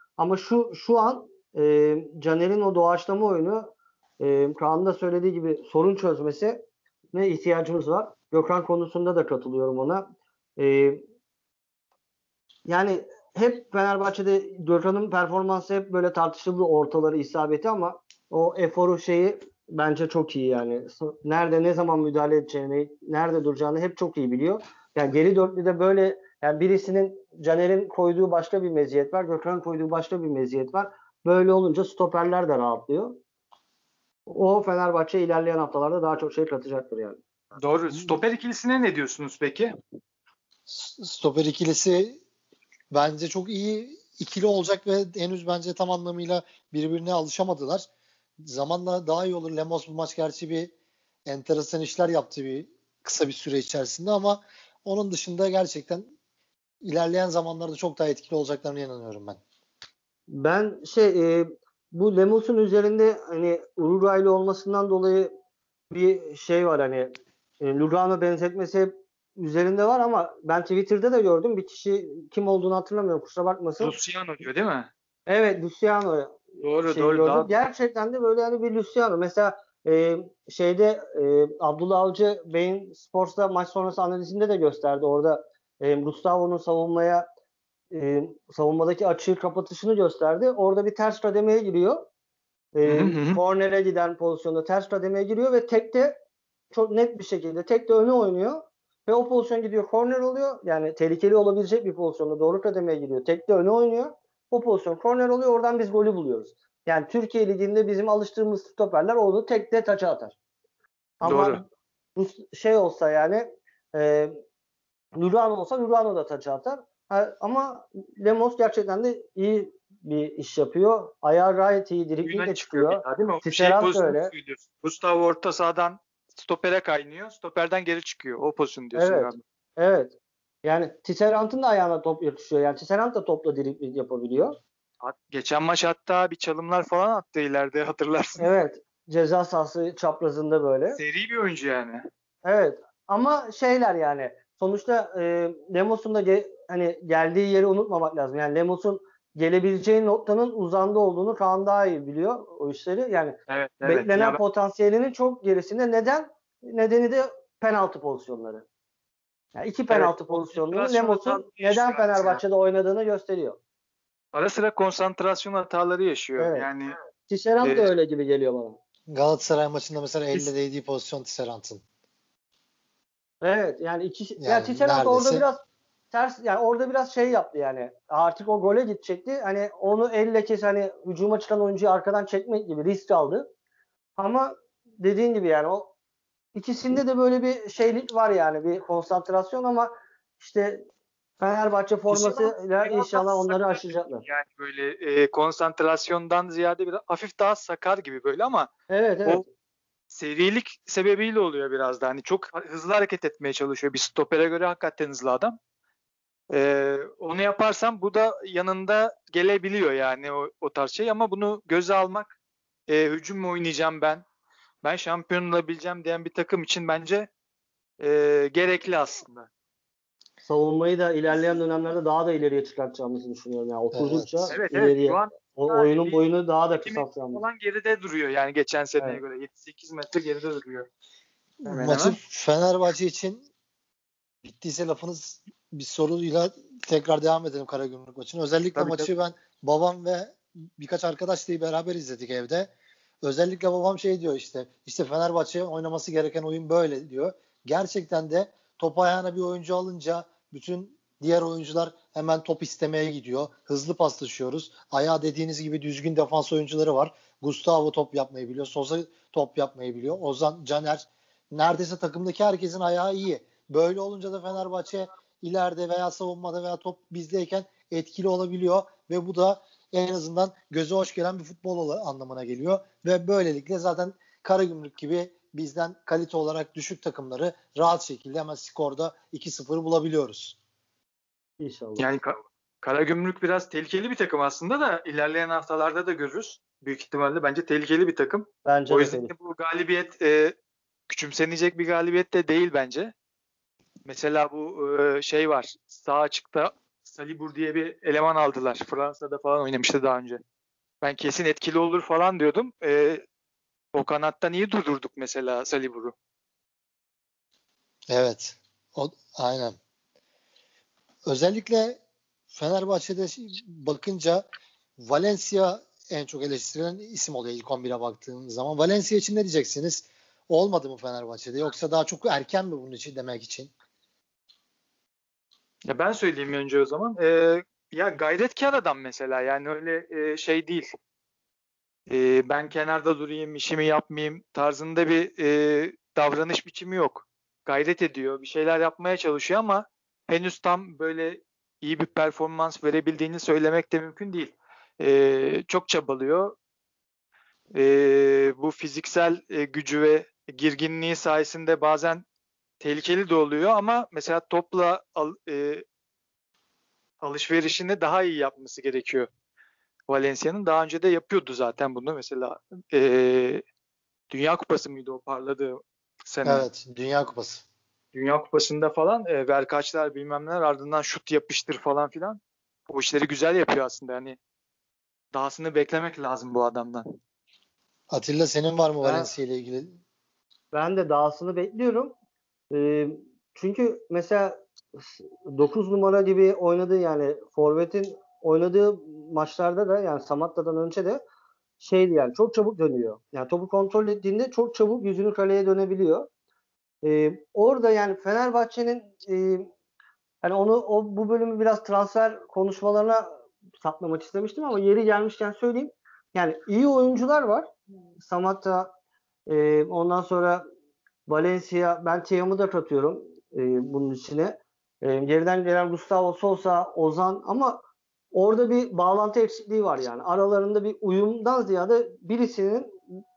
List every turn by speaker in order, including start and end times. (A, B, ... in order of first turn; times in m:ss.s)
0:00.2-0:06.6 A
0:07.1-0:10.0 A
0:10.6-0:11.0 A
0:12.7-0:33.2 A
0:34.3-0:37.2 A
0:37.6-0:39.7 B
0:40.7-0:42.2 C
0:42.9-0:47.9 C
0:48.4-0:50.7 C
0:51.3-0:56.1 C
0:56.8-0:59.4 C
1:00.3-1:05.3 A
1:05.9-1:13.9 A
1:13.8-1:14.9 B
1:15.3-1:27.3 A
1:16.6-1:17.5 B
1:27.9-1:32.1 A
1:32.8-1:36.2 A
1:32.9-1:33.4 B
1:36.7-1:50.4 A
1:51.2-1:54.4 A
1:51.2-1:51.6 B
1:55.2-2:04.3 A
2:02.2-2:09.4 B
2:08.9-2:14.6 A
2:15.0-2:18.5 B
2:18.4-2:21.0 A
2:21.0-2:22.1 B
2:22.4-2:38.7 A
2:33.5-2:34.4 B
2:39.6-2:43.6 A
2:39.9-2:42.4 B
2:44.3-2:46.9 B
2:46.4-2:46.7 A
2:47.3-2:48.8 A
2:47.6-2:47.9 B
2:49.1-2:51.8 C
2:53.4-2:55.6 A
2:54.4-2:55.5 C
2:56.1-3:03.5 A
3:04.2-3:05.9 A
3:06.6-3:10.9 A
3:11.4-3:14.2 A
3:12.1-3:18.7 B
3:18.9-3:19.4 A
3:20.1-3:25.6 B
3:26.5-3:32.3 B
3:32.9-3:34.2 B
3:34.8-3:37.3 B
3:38.0-3:39.5 B
3:40.4-3:47.4 A
3:43.9-3:44.6 C
3:44.5-3:46.3 B
3:46.8-3:50.9 B
3:51.6-3:53.5 C
3:51.7-3:52.2 B
3:54.4-4:02.7 C
3:58.8-3:59.1 B
4:03.2-4:40.6 C
4:41.6-4:42.1 A
4:42.0-4:50.6 B
4:48.7-4:49.3 A
4:51.1-4:53.1 B
4:54.1-5:00.4 B
5:01.0-5:03.2 B
5:03.9-5:06.1 B
5:08.1-5:09.8 C
5:11.3-5:12.0 C
5:12.5-5:14.5 C
5:15.0-5:23.7 C
5:25.9-5:30.9 B
5:32.1-5:46.6 B
5:47.8-5:52.2 B
5:52.8-5:55.8 B
5:57.2-5:59.3 B
6:00.1-6:03.6 B
6:04.3-6:06.7 B
6:06.4-6:07.6 C
6:08.1-6:14.4 B
6:15.3-6:17.0 B
6:18.1-6:20.0 C
6:19.0-6:19.3 A
6:20.7-6:22.1 A
6:22.7-6:31.2 A
6:31.8-6:36.3 A
6:37.0-6:39.7 A
6:40.4-6:43.3 A
6:43.8-6:48.9 A
6:49.5-6:50.6 A
6:51.3-6:57.8 A
6:58.3-7:03.0 A